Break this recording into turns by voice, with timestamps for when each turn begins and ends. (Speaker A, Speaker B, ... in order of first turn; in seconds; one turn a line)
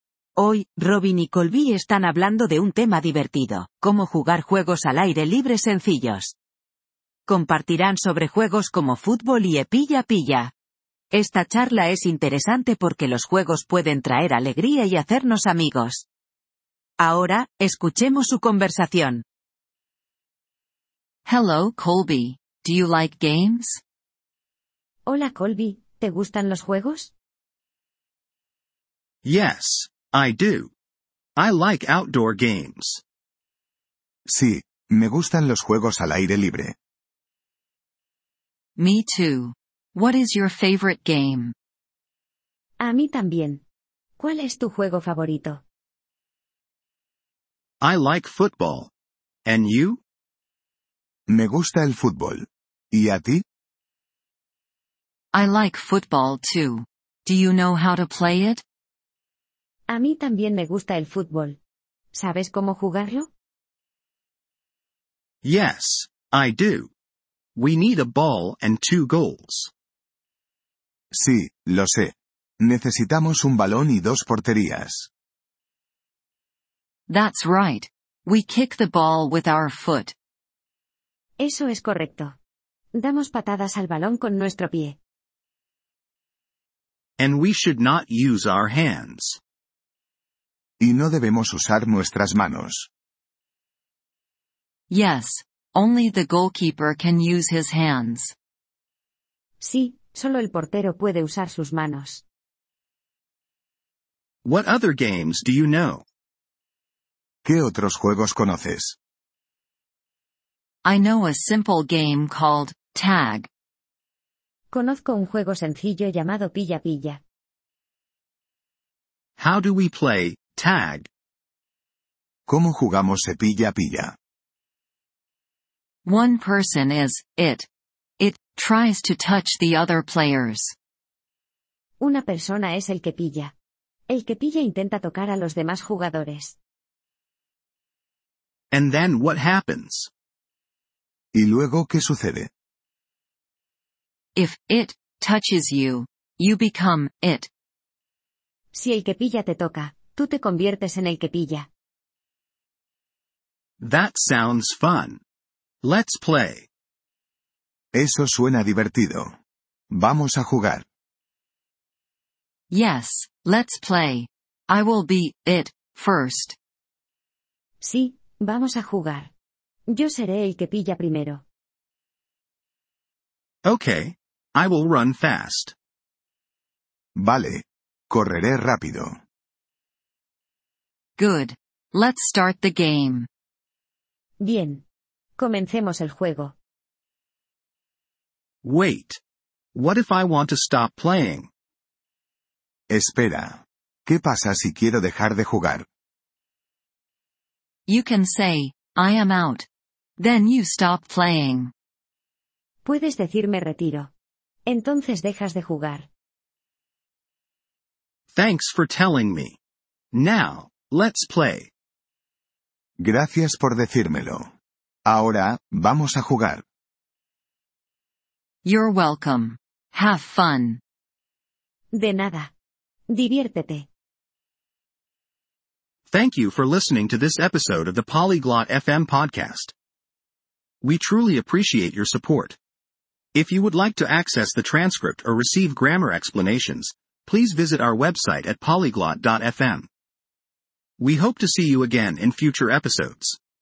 Speaker A: 0.4-6.3
Speaker A: 7.3-10.5
Speaker A: 11.1-16.1
Speaker A: 17.0-19.2
Speaker B: 21.2-23.8
Speaker C: 25.1-27.1
Speaker D: 29.2-30.7
Speaker D: 31.4-33.0
Speaker E: 34.2-36.7
Speaker B: 38.8-41.5
Speaker C: 42.8-43.6
Speaker C: 44.2-45.6
Speaker D: 47.8-48.9
Speaker D: 49.5-50.0
Speaker E: 51.3-53.4
Speaker B: 55.3-58.6
Speaker C: 59.9-61.6
Speaker C: 62.1-63.3
Speaker D: 65.4-66.9
Speaker D: 67.5-69.7
Speaker E: 71.1-75.1
Speaker B: 77.1-80.1
Speaker C: 81.4-82.3
Speaker C: 82.9-85.0
Speaker D: 87.2-89.4
Speaker E: 90.8-92.9
Speaker B: 94.9-98.3
Speaker C: 99.6-102.2
Speaker D: 104.4-106.0
Speaker E: 107.4-109.0
Speaker B: 110.8-113.5
Speaker C: 114.7-117.2
Speaker D: 119.4-121.1
Speaker E: 122.5-124.1
Speaker B: 126.0-127.7
Speaker B: 128.2-130.7
Speaker C: 132.0-133.5
Speaker C: 134.1-136.6
Speaker D: 138.7-140.1
Speaker E: 141.3-142.5
Speaker B: 144.3-147.5
Speaker C: 148.7-151.7
Speaker D: 153.8-155.2
Speaker D: 155.8-156.7
Speaker E: 157.9-159.3
Speaker E: 159.9-160.8
Speaker B: 162.7-166.6
Speaker C: 167.8-169.3
Speaker C: 169.9-171.4
Speaker D: 173.6-175.7
Speaker E: 177.2-179.2
Speaker B: 181.2-183.3
Speaker C: 184.4-184.8
Speaker C: 185.4-186.5
Speaker D: 188.6-189.2
Speaker D: 189.7-191.5
Speaker E: 192.9-195.8
Speaker B: 197.9-199.7
Speaker B: 200.2-201.7
Speaker C: 202.8-204.1
Speaker C: 204.7-206.1
Speaker D: 208.3-209.6
Speaker D: 210.1-211.7
Speaker E: 213.0-214.5
Speaker E: 215.1-216.6
Speaker B: 218.6-220.8
Speaker C: 221.9-222.5
Speaker C: 223.1-223.9
Speaker D: 226.1-229.7
Speaker D: 230.8-232.6
Speaker D: 233.3-239.9
Speaker D: 241.0-243.4